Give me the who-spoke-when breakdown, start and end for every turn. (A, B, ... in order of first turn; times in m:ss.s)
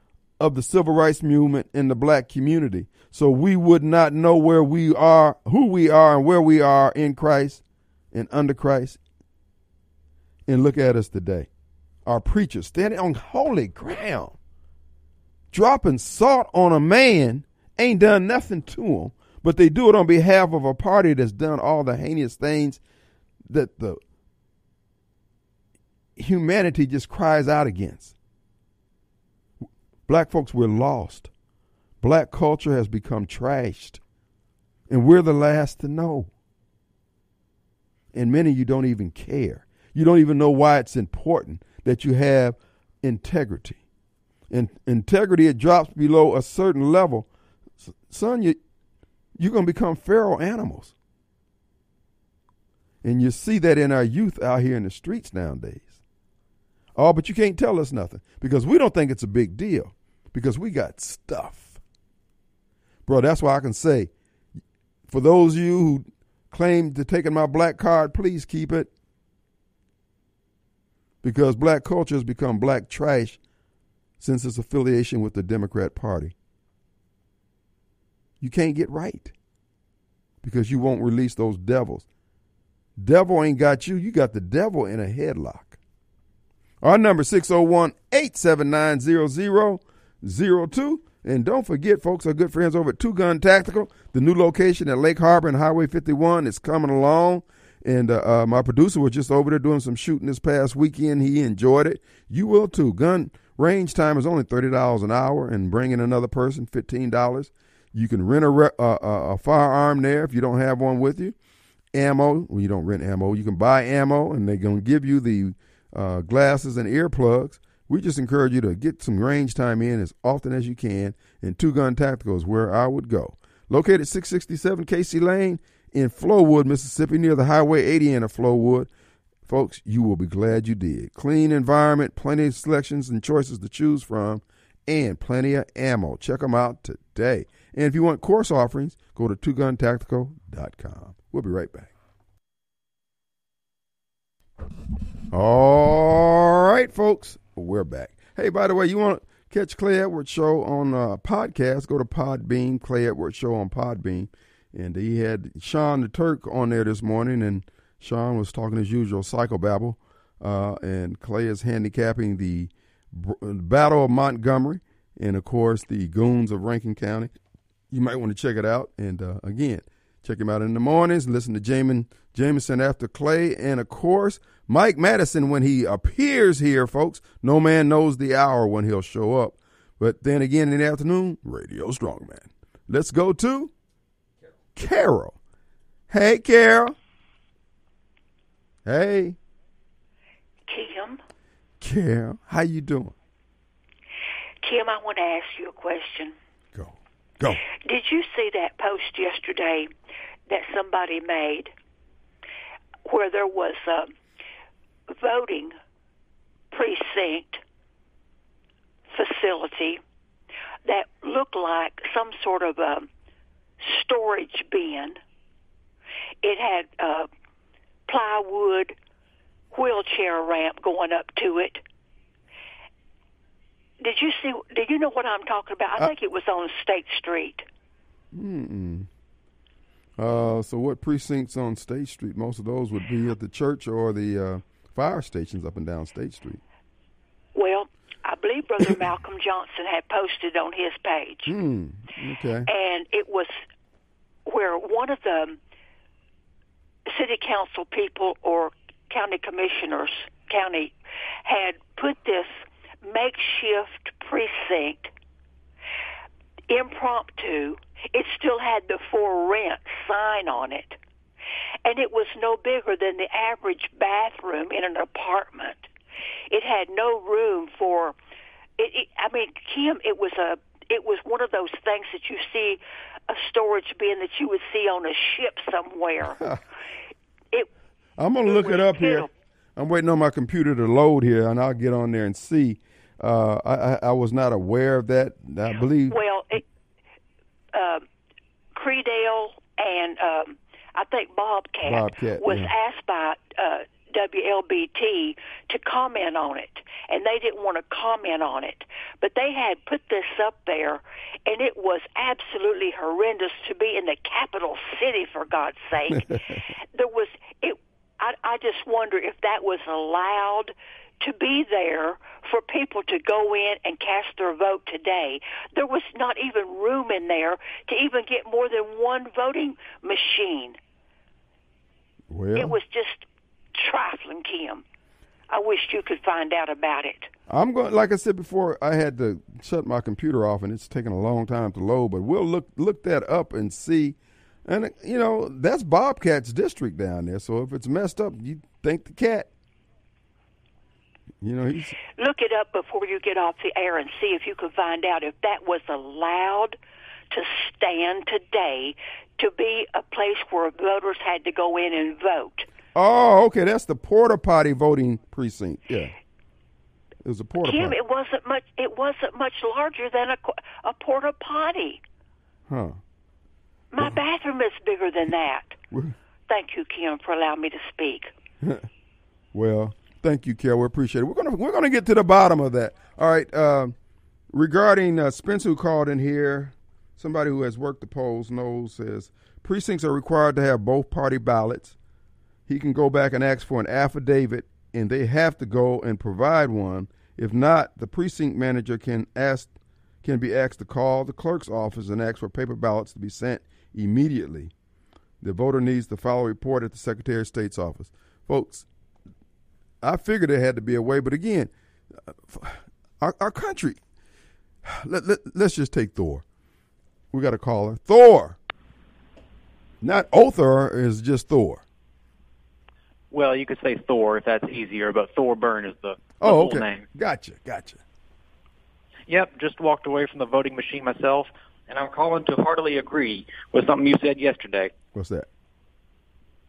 0:00.4-0:07.6 A
0:08.1-0:09.0 A
0:10.5-0:11.5 A
0:12.0-0:14.4 A
0:15.5-0:22.8 A
0:23.5-0:24.0 A
0:26.2-0:28.1 A
0:30.1-0:31.3 A
0:32.0-0:34.0 A
0:34.9-0:36.3 A
0:38.1-0:43.8 A
0:44.5-0:47.3 A
0:48.1-0:48.6 A
0:49.4-0:50.9 A
0:53.0-0:56.0 A
0:57.0-1:01.8 A
1:03.0-1:04.1 A
1:05.1-1:08.9 A
1:11.2-1:13.4 A
1:14.2-1:16.3 A
1:18.4-1:19.3 A
1:20.4-1:22.0 A
1:23.0-1:25.8 A
1:26.8-1:51.3 A
1:51.9-2:08.9 A
2:09.5-2:21.9 A
2:25.3-2:47.3 A
2:47.9-3:03.7 A
3:04.8-3:05.4 A
3:06.1-3:06.9 A
3:08.8-3:09.4 A
3:10.7-3:11.2 B
3:11.8-3:13.1 A
3:14.6-3:16.3 B
3:16.7-3:17.6 A
3:17.8-3:19.9 B
3:20.5-3:21.7 B
3:23.0-3:24.1 B
3:25.1-3:25.7 B
3:26.7-3:27.6 B
3:29.1-3:30.0 B
3:30.8-3:33.1 B
3:33.8-3:35.2 B
3:36.4-3:37.3 B
3:38.1-3:38.9 B
3:39.7-3:41.8 B
3:44.0-3:47.6 B
3:48.3-3:49.1 A
3:50.2-3:56.6 A
3:57.5-4:01.5 B
4:01.4-4:02.7 A
4:02.7-4:03.6 B
4:04.4-4:05.6 B
4:07.1-4:10.9 B
4:11.4-4:15.1 B
4:16.7-4:21.0 B
4:21.8-4:25.9 B
4:26.5-4:28.2 B
4:28.8-4:36.4 B
4:36.2-4:36.6 A
4:38.2-4:46.2 A
4:38.4-4:39.3 B
4:46.1-4:46.6 B
4:47.7-4:48.0 B
4:48.7-5:20.8 B
4:51.8-4:52.7 A
5:22.3-5:22.8 A
5:22.6-5:24.8 B
5:25.5-5:27.3 B
5:27.5-5:39.5 A
5:41.4-5:41.9 A
5:42.2-5:46.8 B
5:47.3-5:52.7 B
5:52.9-5:56.1 A
5:57.2-5:58.0 A
5:57.6-6:02.0 B
6:02.7-6:03.0 A
6:03.9-6:05.8 B
6:06.5-6:08.3 B
6:08.6-6:08.9 A
6:09.5-6:13.9 A
6:14.5-6:21.9 A
6:22.7-6:29.7 A
6:30.2-6:34.7 A
6:35.4-6:38.8 A
6:40.0-6:41.7 A
6:42.3-6:44.0 A
6:44.8-6:46.4 A
6:47.3-6:48.6 A
6:50.0-6:51.8 A
6:53.3-6:57.0 C
6:56.4-6:58.0 A
6:59.3-7:04.9 C
7:05.1-7:05.5 A